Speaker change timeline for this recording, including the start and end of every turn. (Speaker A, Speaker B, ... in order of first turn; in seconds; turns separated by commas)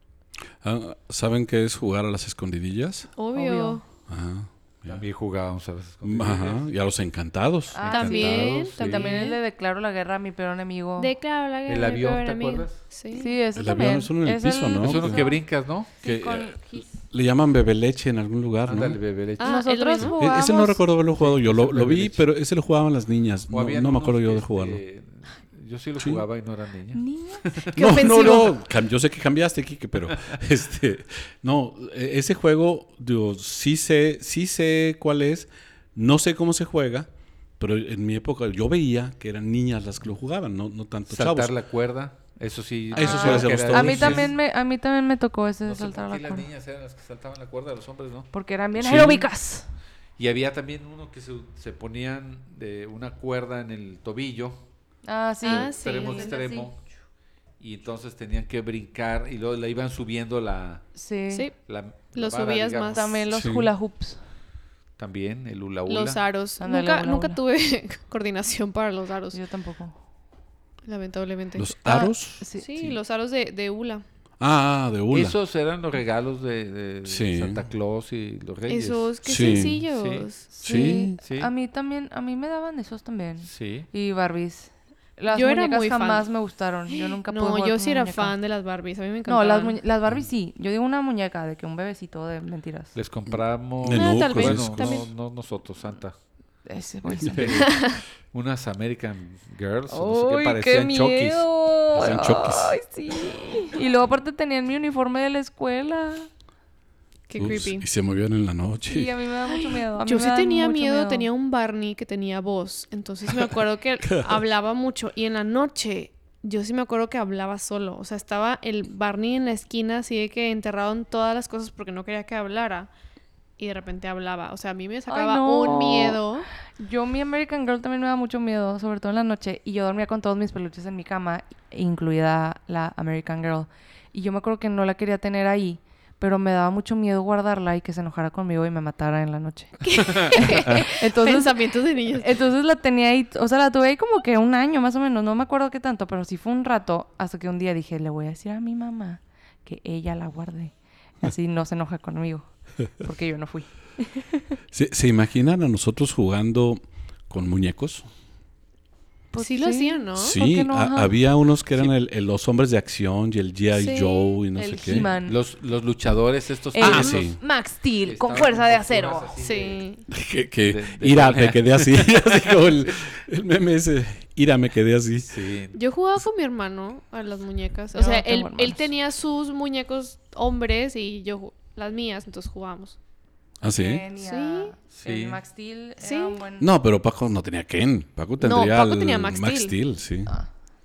Speaker A: 0.6-3.1, Speaker B: 3.2-3.8, Speaker C: 3.4-3.8, Speaker A: 4.1-5.0, Speaker D: 4.9-6.6, Speaker A: 6.0-7.8, Speaker C: 7.7-11.1, Speaker D: 7.9-9.2, Speaker B: 7.9-9.4, Speaker B: 11.0-13.3, Speaker D: 11.7-12.8, Speaker C: 13.1-15.4, Speaker A: 13.6-15.3, Speaker D: 14.8-15.9, Speaker C: 16.0-17.0, Speaker A: 16.0-19.0, Speaker D: 18.7-20.1, Speaker B: 19.4-20.1, Speaker C: 19.4-20.8, Speaker A: 20.0-24.8, Speaker D: 21.1-22.2, Speaker D: 23.5-28.1, Speaker A: 26.0-26.2, Speaker C: 26.9-27.5, Speaker B: 27.7-28.5, Speaker A: 27.8-41.5, Speaker D: 41.1-44.3, Speaker C: 42.9-46.5, Speaker A: 42.9-44.3, Speaker D: 45.6-48.3, Speaker C: 48.3-49.7, Speaker A: 48.8-49.3, Speaker D: 50.2-54.6, Speaker C: 55.0-56.6, Speaker B: 55.4-56.6, Speaker D: 55.4-56.9, Speaker D: 57.6-60.9, Speaker C: 61.0-61.5, Speaker D: 61.6-63.1, Speaker B: 62.1-63.1, Speaker C: 62.9-64.2, Speaker A: 63.3-63.7, Speaker D: 65.0-66.2, Speaker B: 65.9-69.4, Speaker C: 66.6-67.4, Speaker C: 69.3-70.0, Speaker B: 70.8-71.7, Speaker A: 71.6-72.4, Speaker C: 71.8-72.7, Speaker B: 72.6-74.0, Speaker A: 74.4-75.4, Speaker D: 75.1-81.5, Speaker A: 77.0-77.6, Speaker B: 78.7-80.5, Speaker A: 79.2-79.8, Speaker C: 80.5-88.3, Speaker A: 80.6-81.1, Speaker D: 83.4-83.9, Speaker B: 85.3-86.3, Speaker B: 86.9-89.8, Speaker C: 89.3-92.9, Speaker D: 93.0-96.2, Speaker A: 93.3-95.0, Speaker B: 93.9-95.1, Speaker C: 96.7-97.7, Speaker D: 97.2-101.5, Speaker B: 97.6-98.0, Speaker C: 99.9-106.3, Speaker A: 102.0-102.8, Speaker B: 107.3-107.8, Speaker A: 107.4-109.1, Speaker C: 108.9-111.3, Speaker B: 109.5-122.9, Speaker B: 123.6-126.5, Speaker C: 125.1-126.2, Speaker C: 126.8-141.5, Speaker B: 139.8-142.3, Speaker C: 142.2-154.6, Speaker A: 154.7-158.1, Speaker C: 159.3-161.1, Speaker B: 159.4-160.4, Speaker A: 160.2-165.1, Speaker B: 163.7-164.4, Speaker C: 164.6-165.4, Speaker D: 164.9-167.4, Speaker C: 166.7-169.3, Speaker A: 166.8-167.4, Speaker D: 168.1-169.9, Speaker B: 169.4-170.0, Speaker A: 170.1-175.4, Speaker D: 170.6-172.8, Speaker D: 175.3-175.8, Speaker B: 175.7-183.0, Speaker C: 177.9-178.8, Speaker A: 183.6-184.1, Speaker C: 183.7-186.7, Speaker B: 184.2-184.7, Speaker D: 184.9-185.4, Speaker B: 186.0-186.4, Speaker A: 186.6-190.3, Speaker B: 188.4-189.8